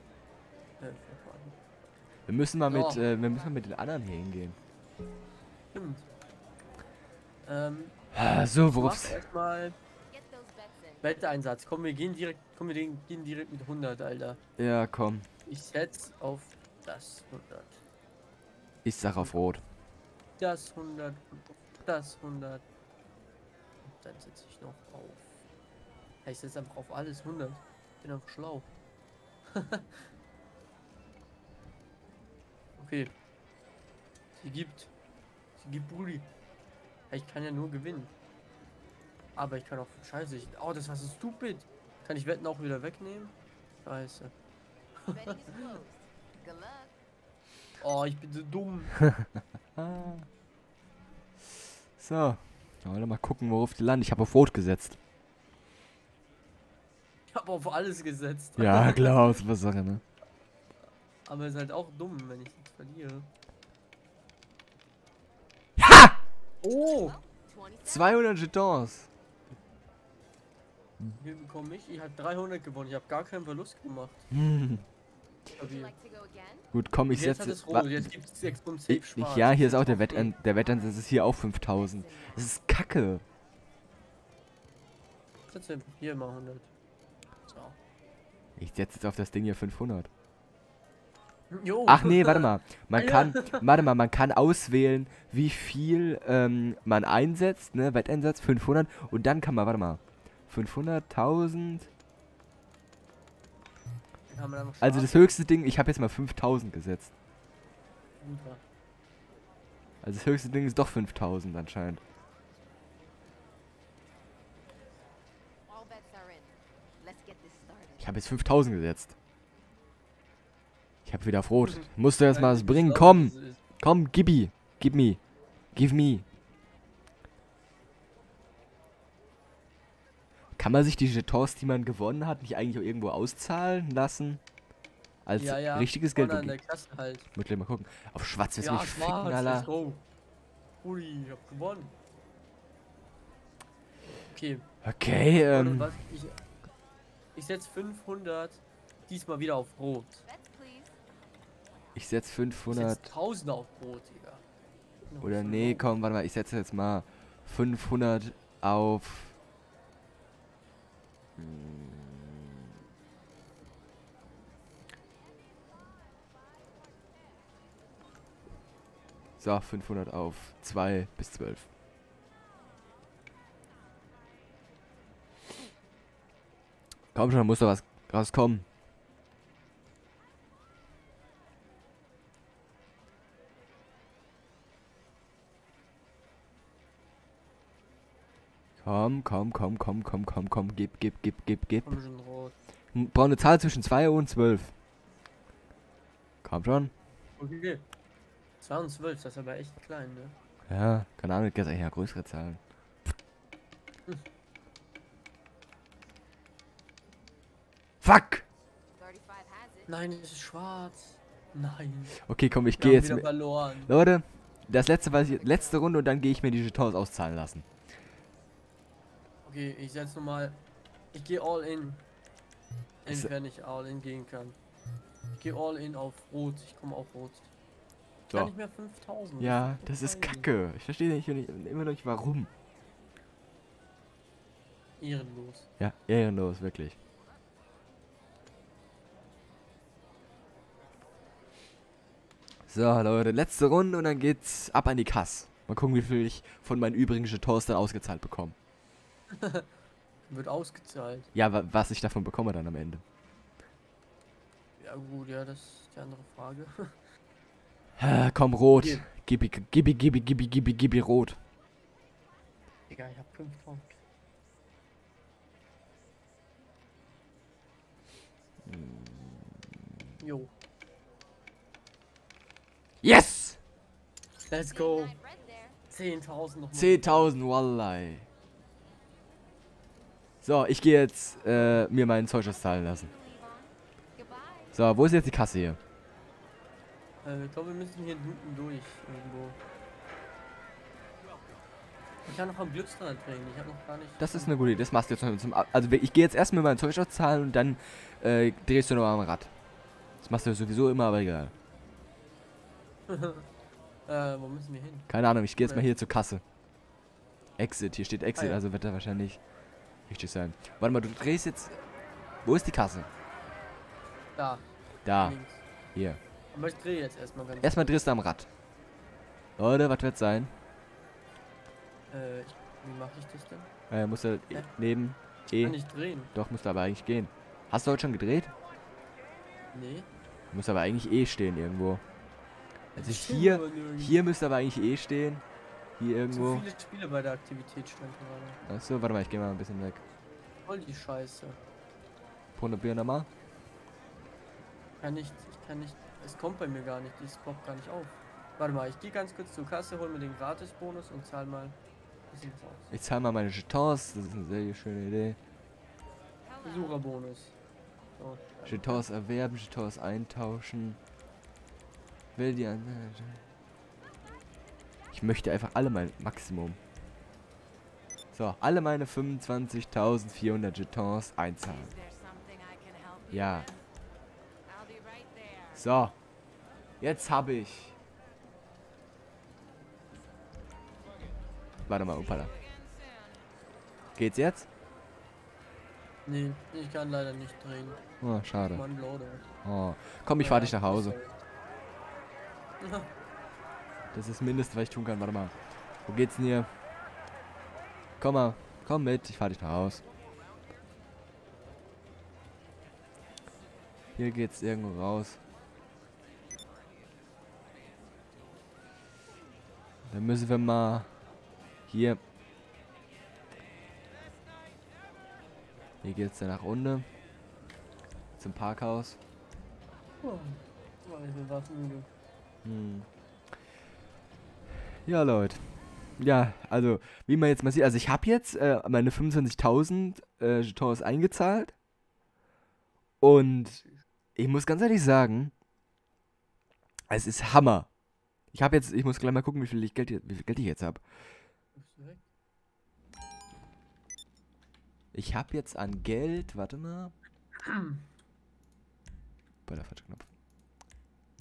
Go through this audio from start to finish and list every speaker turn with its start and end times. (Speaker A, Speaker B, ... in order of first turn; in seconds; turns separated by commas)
Speaker A: 0.8-1.6, Speaker B: 2.3-4.6, Speaker A: 2.7-3.0, Speaker A: 5.7-6.1, Speaker A: 7.4-8.0, Speaker B: 8.1-9.2, Speaker A: 8.7-9.8, Speaker C: 10.1-11.2, Speaker A: 11.0-14.4, Speaker B: 14.6-15.2, Speaker A: 15.5-17.8, Speaker B: 18.9-19.6, Speaker A: 20.4-22.6, Speaker A: 23.8-25.4, Speaker A: 26.2-28.7, Speaker A: 29.5-30.1, Speaker A: 32.8-33.1, Speaker A: 34.4-34.9, Speaker A: 35.6-36.3, Speaker A: 37.1-38.1, Speaker A: 39.4-44.3, Speaker C: 45.0-47.0, Speaker A: 45.1-45.4, Speaker A: 47.8-49.0, Speaker B: 49.1-50.3, Speaker B: 52.0-55.0, Speaker A: 57.3-59.4, Speaker B: 58.6-60.0, Speaker A: 61.3-63.3, Speaker B: 65.8-66.2, Speaker A: 66.6-67.2, Speaker C: 66.7-68.2, Speaker B: 67.8-69.1, Speaker A: 71.2-74.2, Speaker B: 74.3-74.8, Speaker A: 75.5-75.9, Speaker C: 75.6-76.7, Speaker B: 76.7-78.1, Speaker A: 77.1-80.3, Speaker B: 78.9-83.2, Speaker C: 80.4-82.5, Speaker A: 85.5-86.7, Speaker A: 87.5-87.8, Speaker B: 88.6-90.1, Speaker A: 91.5-93.7, Speaker B: 91.9-101.9, Speaker A: 104.3-105.3, Speaker B: 104.8-107.1, Speaker A: 108.2-108.6, Speaker B: 110.0-112.0, Speaker C: 115.7-118.1, Speaker B: 118.0-119.2, Speaker B: 121.0-125.2, Speaker A: 121.7-123.6, Speaker B: 125.8-126.2, Speaker B: 130.6-134.4, Speaker B: 135.3-136.6, Speaker A: 135.4-137.3, Speaker B: 137.3-139.7, Speaker A: 138.6-140.0, Speaker A: 140.8-141.9, Speaker A: 144.3-144.7, Speaker B: 144.8-145.9, Speaker A: 145.5-146.4, Speaker A: 147.3-150.2, Speaker C: 150.3-150.9, Speaker B: 151.9-153.1, Speaker A: 152.7-154.4, Speaker A: 155.1-155.8, Speaker B: 155.2-159.4, Speaker B: 161.4-162.4, Speaker B: 169.4-171.7, Speaker B: 177.1-178.7, Speaker B: 188.8-192.0, Speaker A: 191.8-192.6, Speaker B: 192.9-194.7, Speaker B: 196.4-196.9, Speaker A: 197.4-197.8, Speaker A: 198.6-200.4, Speaker B: 200.7-202.6, Speaker B: 208.0-208.4, Speaker C: 209.0-209.9, Speaker A: 209.9-212.2, Speaker B: 212.2-217.7, Speaker A: 212.8-213.9, Speaker A: 219.4-220.6, Speaker A: 221.1-222.0, Speaker A: 223.1-224.6, Speaker A: 225.3-227.5, Speaker A: 228.3-230.5, Speaker B: 229.4-232.5, Speaker A: 235.0-235.7, Speaker B: 235.8-237.0, Speaker B: 242.7-248.6, Speaker A: 249.3-249.7, Speaker A: 250.3-251.3, Speaker B: 251.3-253.0, Speaker A: 254.8-257.0, Speaker B: 258.0-261.4, Speaker A: 258.8-259.1, Speaker A: 262.9-264.0, Speaker B: 268.7-269.6, Speaker A: 270.2-270.5, Speaker B: 273.0-273.6, Speaker A: 274.5-275.1, Speaker C: 274.7-275.8, Speaker A: 275.9-277.3, Speaker B: 276.7-278.3, Speaker B: 280.4-283.1, Speaker C: 282.8-284.8, Speaker B: 284.7-285.8, Speaker A: 287.2-289.6, Speaker A: 292.2-294.9, Speaker B: 294.2-299.5, Speaker B: 300.2-301.5, Speaker A: 303.1-303.5, Speaker A: 304.1-305.9, Speaker B: 305.1-306.4, Speaker B: 307.6-309.4, Speaker A: 308.4-308.6, Speaker B: 310.1-311.8, Speaker B: 312.4-313.1, Speaker A: 314.4-315.6, Speaker B: 315.1-315.4, Speaker A: 316.5-317.9, Speaker B: 317.6-318.5, Speaker B: 319.6-320.5, Speaker A: 322.1-323.7, Speaker B: 323.9-325.8, Speaker A: 325.6-326.3, Speaker B: 326.3-328.5, Speaker A: 329.7-330.1, Speaker B: 330.5-332.0, Speaker A: 332.9-334.2, Speaker B: 333.0-335.4, Speaker B: 336.0-336.6, Speaker A: 336.3-338.6, Speaker B: 338.7-340.0, Speaker A: 340.6-341.6, Speaker B: 342.6-343.3, Speaker A: 345.0-351.8, Speaker A: 352.3-352.9, Speaker B: 352.9-355.4, Speaker C: 356.4-357.0, Speaker A: 356.6-357.5, Speaker A: 358.2-359.1, Speaker B: 358.7-361.0, Speaker B: 362.4-363.4, Speaker B: 365.1-366.8, Speaker B: 368.3-371.9, Speaker C: 371.6-373.8, Speaker B: 373.3-373.6, Speaker C: 374.7-375.9, Speaker B: 375.8-376.2, Speaker B: 377.0-377.9, Speaker B: 381.9-382.5, Speaker C: 382.1-383.4, Speaker B: 384.2-384.7, Speaker A: 386.3-388.0, Speaker B: 388.2-388.8, Speaker A: 388.7-389.4, Speaker B: 389.6-391.2, Speaker A: 390.4-391.4, Speaker A: 392.8-393.1, Speaker B: 394.1-395.5, Speaker B: 396.1-396.7, Speaker B: 398.2-400.0, Speaker B: 404.2-405.4, Speaker B: 410.1-411.1, Speaker B: 411.9-412.2, Speaker B: 416.0-417.1, Speaker B: 418.4-419.2, Speaker A: 420.2-422.1, Speaker B: 422.6-423.1, Speaker B: 425.1-431.8, Speaker B: 433.2-433.8, Speaker B: 434.4-435.5, Speaker B: 437.1-437.9, Speaker B: 438.5-441.0, Speaker A: 441.8-442.2, Speaker B: 445.1-447.1, Speaker A: 447.6-448.1, Speaker B: 449.7-450.3